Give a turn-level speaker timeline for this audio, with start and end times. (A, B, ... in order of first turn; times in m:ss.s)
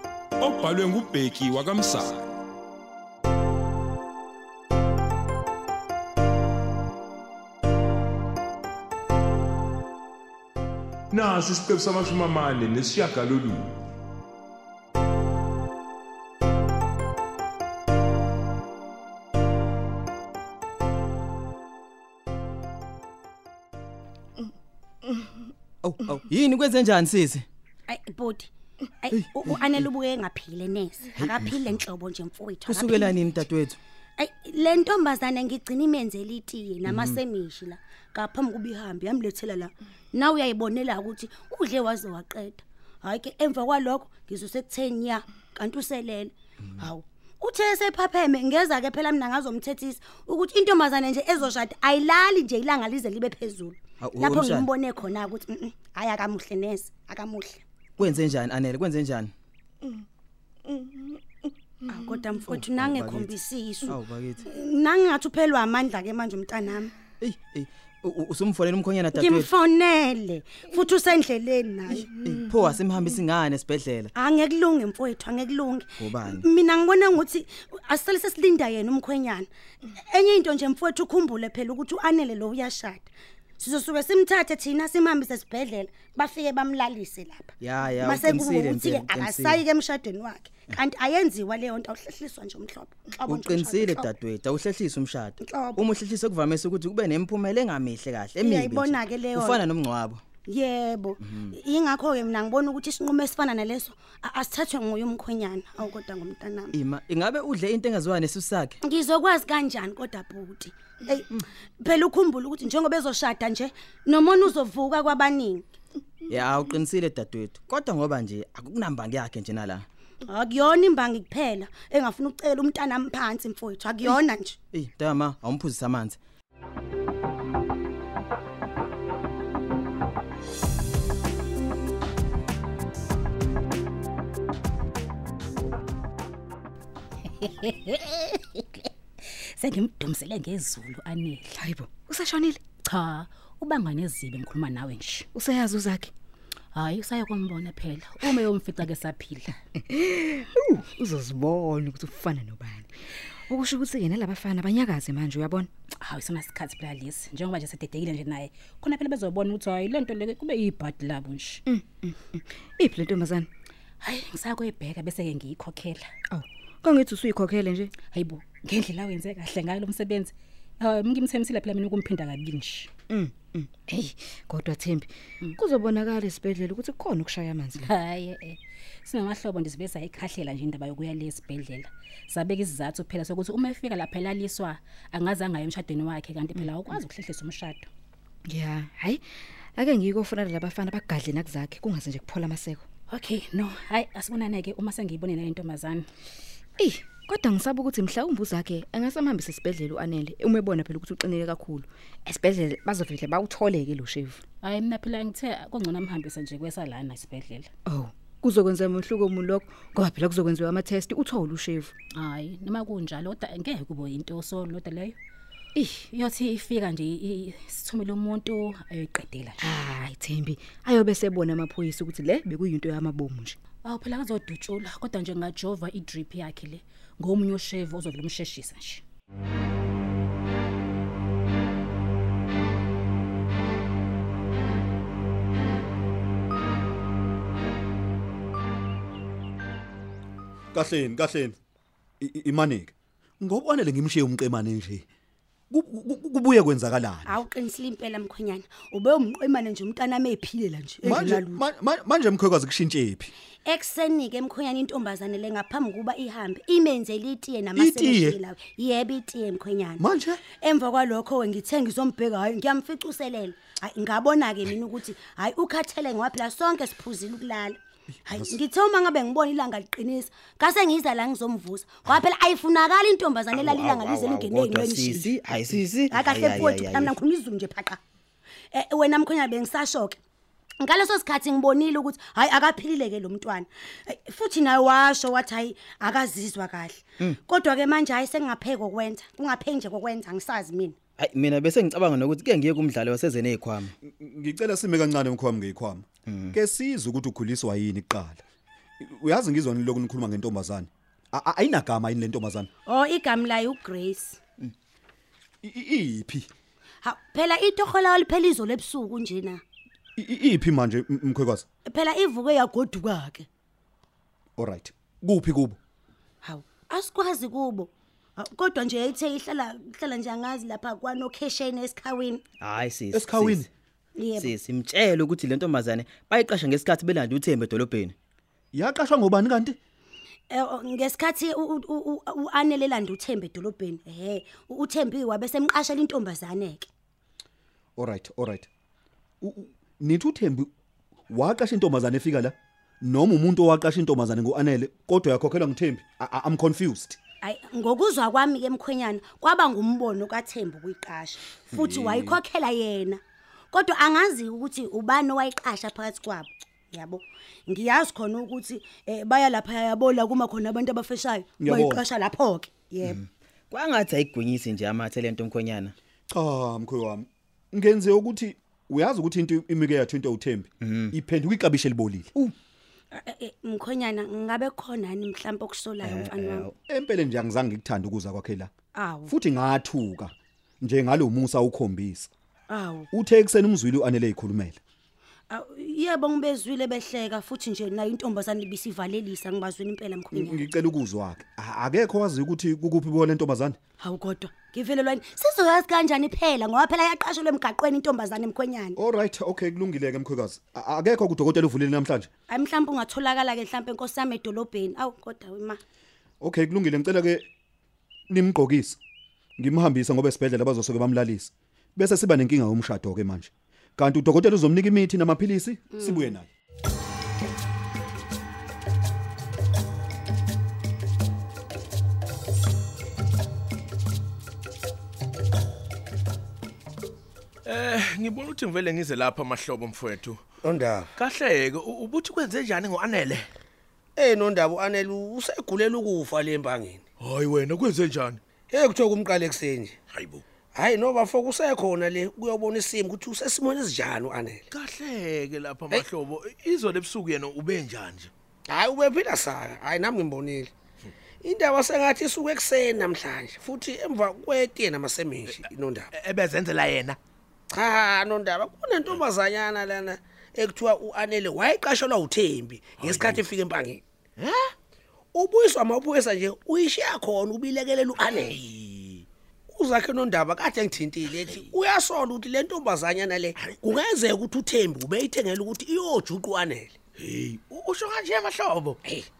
0:00.4-0:02.3 A
0:11.1-0:13.7 A
0:25.8-0:27.4 B
0:27.9-0:28.5 C
0:29.0-0:33.2 C
0:29.1-0:29.6 B
0:31.2-0:31.6 B
0:32.6-0:33.8 B
0:34.2-0:57.6 C
0:36.8-0:37.2 B
0:54.0-0:54.7 B
0:58.0-0:59.3 B
1:01.9-1:06.9 C
1:02.5-1:03.3 B
1:03.8-1:04.4 B
1:07.2-1:09.5 B
1:09.1-1:12.2 C
1:12.2-1:14.1 B
1:14.2-1:34.1 C
1:16.0-1:16.4 B
1:27.6-1:29.6 B
1:33.2-1:40.2 B
1:35.4-1:35.8 C
1:38.4-1:39.6 C
1:40.5-1:46.7 C
1:41.2-1:41.5 B
1:46.7-1:48.8 B
1:48.8-1:55.6 C
1:56.3-1:59.8 B
2:00.3-2:04.6 C
2:04.7-2:06.2 B
2:17.2-2:18.9 D
2:19.6-2:21.5 D
2:21.5-2:22.6 E
2:22.8-2:25.2 D
2:25.3-2:26.1 E
2:26.7-2:29.5 D
2:29.9-2:32.9 E
2:33.5-2:35.7 E
2:36.0-2:41.6 D
2:41.7-2:43.5 E
2:44.0-2:46.0 D
2:46.3-2:47.9 E
2:48.1-2:52.9 D
2:53.1-2:57.9 E
2:57.8-3:07.9 D
3:08.5-3:09.2 E
3:09.8-3:12.8 E
3:13.1-3:16.1 D
3:16.8-3:24.4 E
3:24.6-3:27.7 D
3:27.8-3:31.9 E
3:32.1-3:35.2 D
3:35.8-3:36.0 E
3:36.1-3:39.8 D
3:39.6-3:43.6 E
3:43.8-3:49.0 D
4:00.7-4:01.6 F
4:02.2-4:05.1 F
4:05.7-4:07.4 F
4:07.2-4:11.6 C
4:11.0-4:13.3 F
4:13.6-4:35.3 C
4:17.8-4:18.4 F
4:20.0-4:20.4 F
4:33.5-4:34.5 G
4:34.5-4:37.1 B
4:36.1-4:38.0 C
4:38.7-4:40.2 C
4:40.8-4:51.0 C
4:51.2-4:53.9 B
4:54.0-4:58.4 F
4:56.3-4:56.5 B
4:59.0-5:02.7 F
5:02.8-5:04.4 C
5:05.6-5:06.5 F
5:07.0-5:09.6 C
5:10.2-5:11.6 F
5:11.9-5:13.4 C
5:14.6-5:15.8 F
5:16.4-5:22.4 C
5:22.6-5:23.6 B
5:23.1-5:23.7 F
5:24.2-5:24.5 C
5:24.4-5:28.1 B
5:28.7-5:29.8 F
5:30.5-5:36.9 C
5:38.0-5:38.7 F
5:39.4-5:40.7 F
5:41.3-5:47.2 F
5:47.4-5:53.2 C
5:51.7-5:52.4 F
5:53.7-6:03.2 C
6:01.6-6:02.1 F
6:03.1-6:05.9 B
6:06.3-6:12.3 F
6:10.8-6:11.1 B
6:13.1-6:16.7 C
6:16.0-6:16.7 B
6:16.9-6:18.7 F
6:18.9-6:19.3 C
6:19.3-6:22.3 F
6:22.7-6:23.1 C
6:23.1-6:24.8 F
6:25.5-6:30.7 C
6:30.3-6:33.8 F
6:34.0-6:39.0 C
6:39.0-6:42.3 F
6:42.5-6:45.8 C
6:46.4-6:47.5 F
6:48.3-6:49.0 F
6:49.6-6:56.5 F
6:55.9-6:56.3 C
7:07.6-7:10.4 H
7:10.6-7:11.1 G
7:11.2-7:13.5 H
7:14.2-7:17.0 G
7:17.2-7:18.4 H
7:18.7-7:19.9 G
7:20.1-7:20.4 H
7:20.7-7:24.6 G
7:24.7-7:28.3 H
7:28.7-7:30.7 G
7:31.4-7:36.1 G
7:35.5-7:37.2 H
7:37.7-7:44.0 G
7:43.0-7:43.4 H
7:44.4-7:44.7 H
7:45.3-7:48.5 G
7:48.2-7:49.2 H
7:49.7-7:56.9 G
7:51.2-7:51.7 H
7:53.6-7:53.9 H
7:57.2-7:59.0 H